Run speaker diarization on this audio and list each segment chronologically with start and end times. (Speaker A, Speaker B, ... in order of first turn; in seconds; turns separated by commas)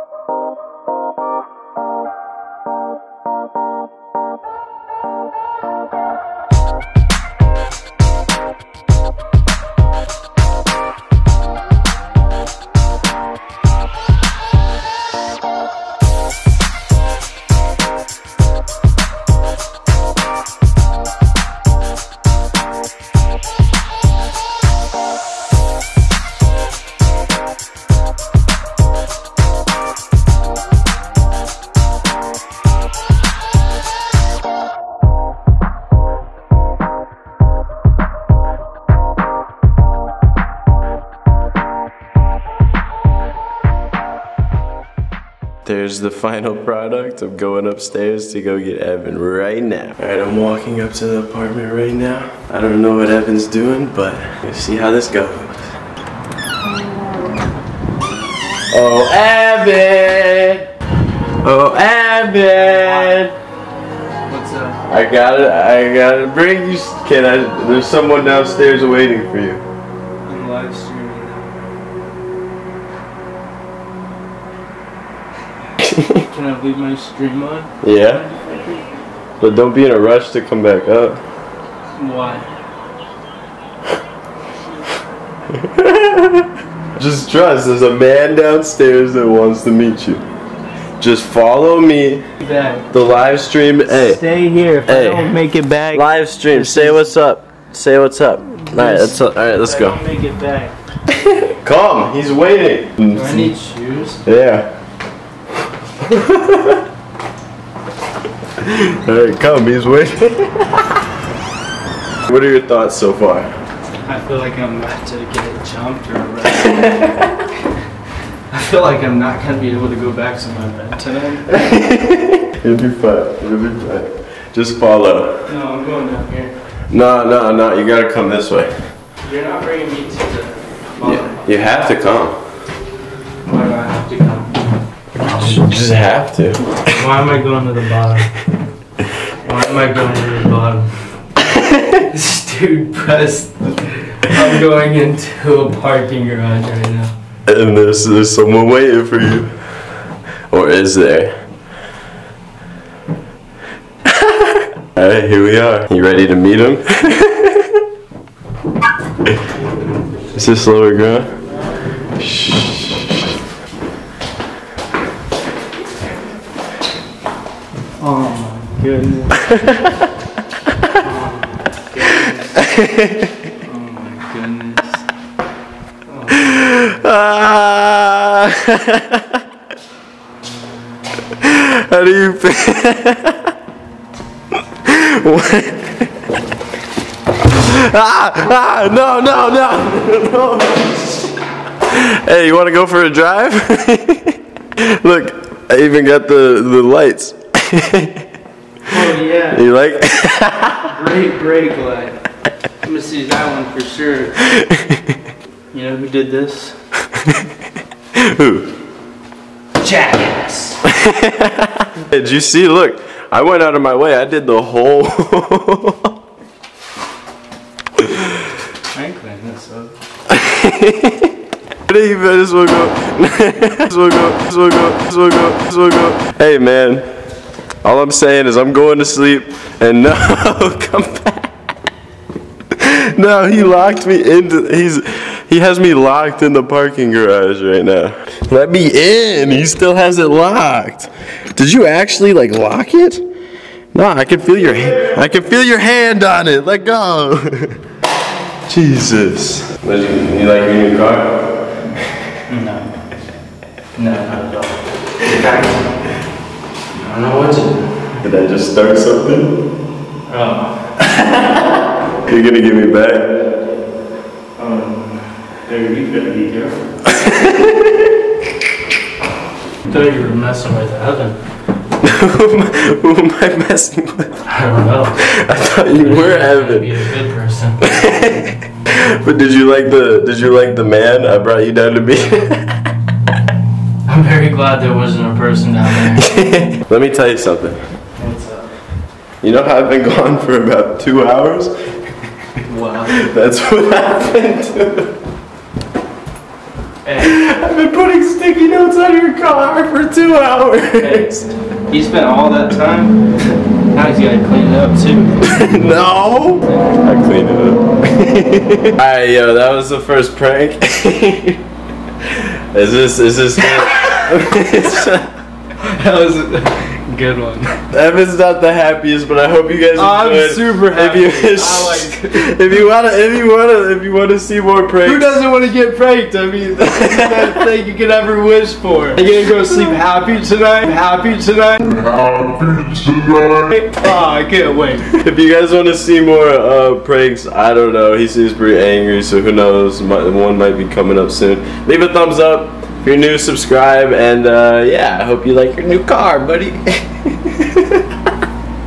Speaker A: 45.6-55.7, Speaker A: 58.7-60.6, Speaker A: 61.4-63.4, Speaker B: 62.7-63.2, Speaker B: 64.2-64.8, Speaker A: 64.9-69.6, Speaker B: 70.2-71.5, Speaker A: 75.8-76.2, Speaker B: 76.2-78.8, Speaker A: 77.8-78.3, Speaker A: 79.4-81.2, Speaker B: 82.0-82.5, Speaker A: 85.5-90.2, Speaker A: 91.0-92.2, Speaker B: 92.4-92.9, Speaker A: 92.9-94.2, Speaker B: 93.9-97.1, Speaker A: 94.9-95.3, Speaker A: 95.9-100.0, Speaker B: 98.7-100.7, Speaker A: 101.1-103.5, Speaker B: 103.1-104.2, Speaker A: 104.2-104.7, Speaker A: 106.0-106.8, Speaker A: 108.6-111.0, Speaker A: 112.2-113.5, Speaker B: 114.0-117.2, Speaker B: 118.5-121.6, Speaker A: 121.5-125.5, Speaker B: 125.5-126.5, Speaker A: 126.9-128.7, Speaker B: 129.2-131.5, Speaker A: 131.0-132.4, Speaker B: 133.4-134.6, Speaker A: 135.2-136.9, Speaker B: 135.2-135.6, Speaker B: 136.8-138.3, Speaker B: 139.4-141.2, Speaker A: 141.6-141.9, Speaker B: 141.9-147.1, Speaker A: 147.5-149.5, Speaker A: 150.5-151.3, Speaker A: 154.0-157.8, Speaker A: 160.3-161.3, Speaker A: 162.2-163.2, Speaker B: 168.0-169.7, Speaker A: 169.4-170.0, Speaker B: 171.0-172.7, Speaker A: 172.6-173.4, Speaker B: 173.6-175.1, Speaker B: 176.1-176.5, Speaker A: 176.3-179.4, Speaker A: 181.4-183.5, Speaker A: 184.8-186.1, Speaker A: 187.6-191.2, Speaker A: 191.8-198.2, Speaker B: 198.9-199.6, Speaker A: 199.5-200.9, Speaker B: 200.8-202.2, Speaker B: 202.8-204.5, Speaker A: 204.5-205.0, Speaker B: 205.7-206.8, Speaker A: 208.1-208.7, Speaker B: 209.8-210.8, Speaker A: 210.9-216.1, Speaker B: 218.9-219.9, Speaker A: 220.3-221.3, Speaker A: 221.8-227.1, Speaker A: 227.8-231.5, Speaker A: 232.7-243.2, Speaker A: 243.9-247.8, Speaker A: 248.7-251.4, Speaker B: 252.5-252.9, Speaker B: 253.9-255.9, Speaker B: 256.9-258.2, Speaker A: 258.2-259.5, Speaker B: 260.3-261.1, Speaker A: 262.2-263.3, Speaker B: 264.6-266.8, Speaker A: 267.1-267.9, Speaker B: 269.8-271.4, Speaker A: 272.0-274.4, Speaker B: 274.4-275.3, Speaker A: 275.2-277.1, Speaker B: 275.9-277.9, Speaker A: 277.8-282.7, Speaker B: 284.1-286.2, Speaker A: 286.2-287.8, Speaker B: 288.1-288.6, Speaker A: 289.4-291.7, Speaker B: 292.6-293.3, Speaker A: 293.1-295.1, Speaker B: 297.0-297.4, Speaker A: 297.2-301.4, Speaker B: 301.0-305.6, Speaker A: 305.4-311.6, Speaker B: 306.6-307.0, Speaker A: 312.2-315.3, Speaker B: 315.8-317.8, Speaker A: 317.9-325.4, Speaker B: 319.9-322.8, Speaker B: 325.0-332.3, Speaker A: 326.9-327.6, Speaker B: 333.5-335.1, Speaker A: 335.1-348.0